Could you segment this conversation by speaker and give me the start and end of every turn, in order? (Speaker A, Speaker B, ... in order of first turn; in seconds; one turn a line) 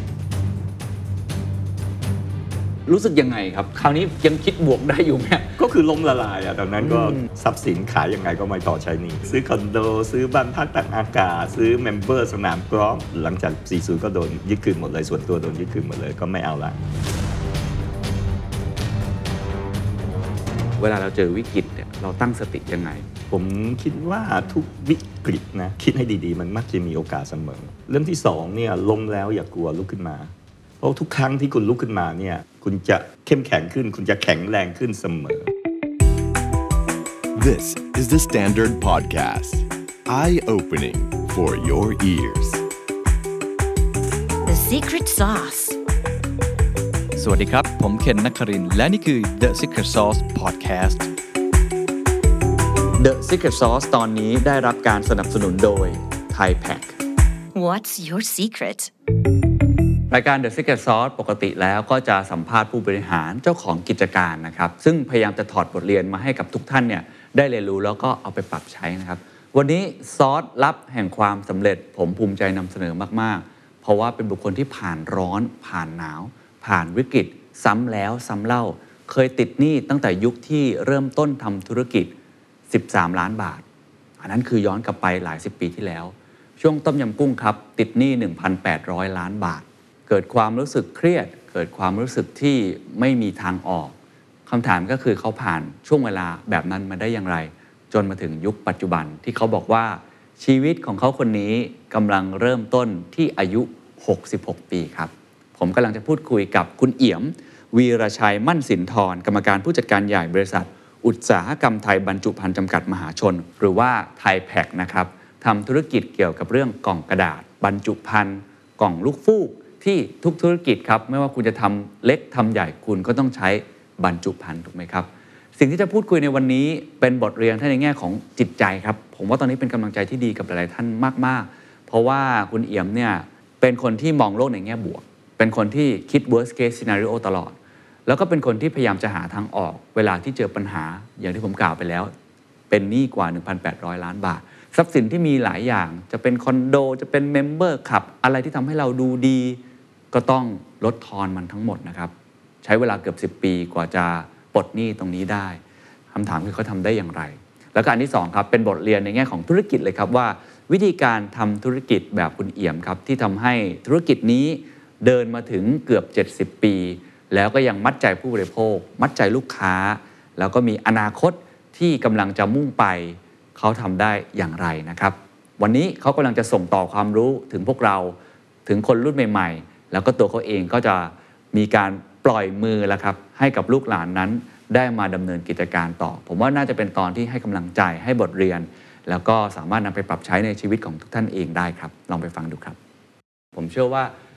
Speaker A: 2.9-5.5
Speaker B: 5.6-16.8
Speaker A: 6.8-7.2
Speaker A: 20.8-23.1
Speaker B: 23.3-35.5
Speaker C: 37.4-42.6
Speaker D: 44.4-45.8
Speaker E: 47.2-51.1
Speaker A: 53.0-56.9
Speaker D: 57.5-58.9
Speaker A: 60.1-82.1
Speaker A: 82.7-83.6
Speaker A: 84.2-93.9
Speaker A: 94.5-142.1
Speaker A: 142.7-149.6
Speaker A: 150.1-152.1
Speaker A: 152.6-155.6
Speaker A: 156.1-192.8
Speaker A: 193.5-194.1